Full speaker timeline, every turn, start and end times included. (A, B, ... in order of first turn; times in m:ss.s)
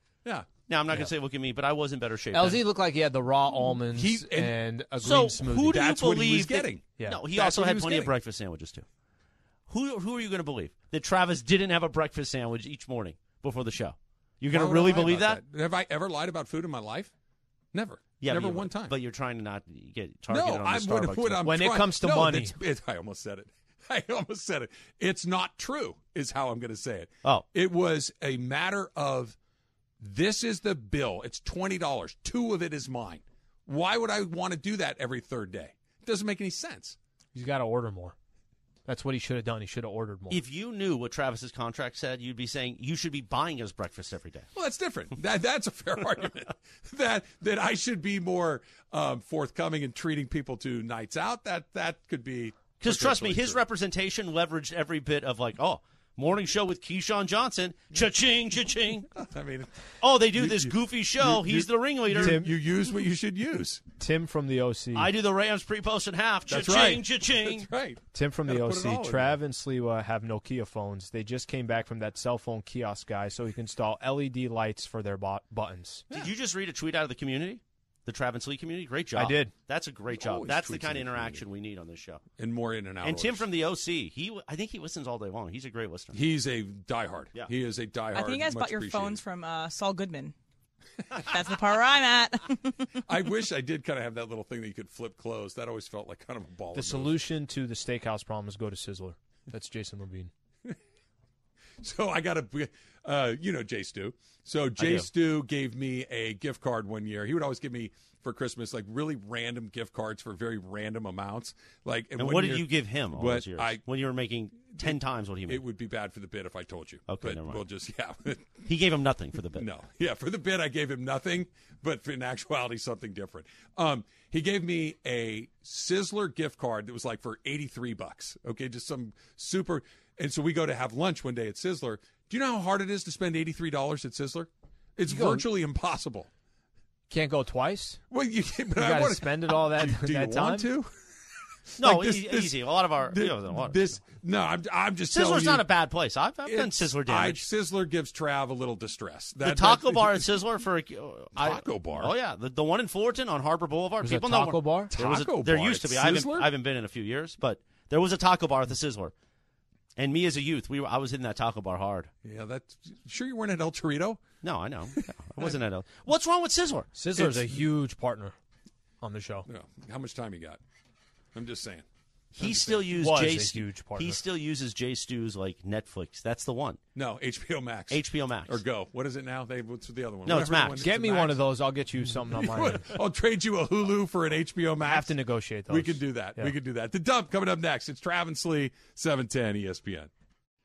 0:00.7-0:02.6 A
0:02.3-0:05.8 B
0:03.9-0:04.6 C
0:05.0-0:08.8 A
0:05.7-0:08.1 C
0:09.7-0:15.4 A
0:14.5-0:17.1 C
0:17.7-0:18.9 C
0:18.2-0:21.5 A
0:20.3-0:29.4 C
0:21.4-0:22.6 B
0:30.0-0:37.0 C
0:37.3-0:38.1 B
0:38.8-0:40.4 B
0:40.3-0:44.5 A
0:44.5-0:53.6 C
0:52.8-0:59.1 A
0:59.2-0:59.7 C
1:00.0-1:02.4 A
1:00.3-1:03.8 C
1:02.2-1:02.5 B
1:04.0-1:05.1 B
1:04.9-1:07.7 A
1:06.5-1:09.4 C
1:08.1-1:16.0 B
1:16.1-1:22.2 A
1:19.2-1:19.5 B
1:20.1-1:21.4 C
1:22.4-1:23.4 C
1:23.0-1:26.2 A
1:26.1-1:29.2 C
1:28.1-1:30.3 D
1:31.2-1:32.7 D
1:33.1-1:37.2 C
1:36.7-1:40.3 B
1:41.8-1:53.8 C
1:44.8-1:45.1 A
1:52.2-1:55.6 A
1:54.7-1:58.6 C
1:57.1-1:57.6 A
1:58.6-1:59.6 A
1:59.6-2:16.3 C
2:15.1-2:15.5 B
2:17.1-2:18.0 B
2:18.1-2:20.9 C
2:18.8-2:20.7 B
2:21.8-2:25.7 C
2:21.8-2:24.0 A
2:25.1-2:27.4 A
2:26.4-2:30.3 C
2:29.4-2:39.1 A
2:31.4-2:32.1 C
2:34.0-2:34.9 B
2:34.9-2:36.5 C
2:40.0-2:42.1 A
2:42.2-2:44.2 C
2:44.4-2:46.9 A
2:44.9-2:45.5 C
2:46.9-2:48.4 B
2:47.2-2:47.6 C
2:49.0-2:49.5 B
2:49.5-2:50.6 C
2:51.3-2:51.8 C
2:52.4-2:52.9 C
2:52.4-2:56.8 A
2:53.0-2:54.2 B
2:56.9-3:01.4 C
2:57.9-2:58.6 A
3:00.2-3:00.8 A
3:00.8-3:02.9 B
3:02.1-3:05.1 C
3:04.8-3:06.5 B
3:05.7-3:10.1 C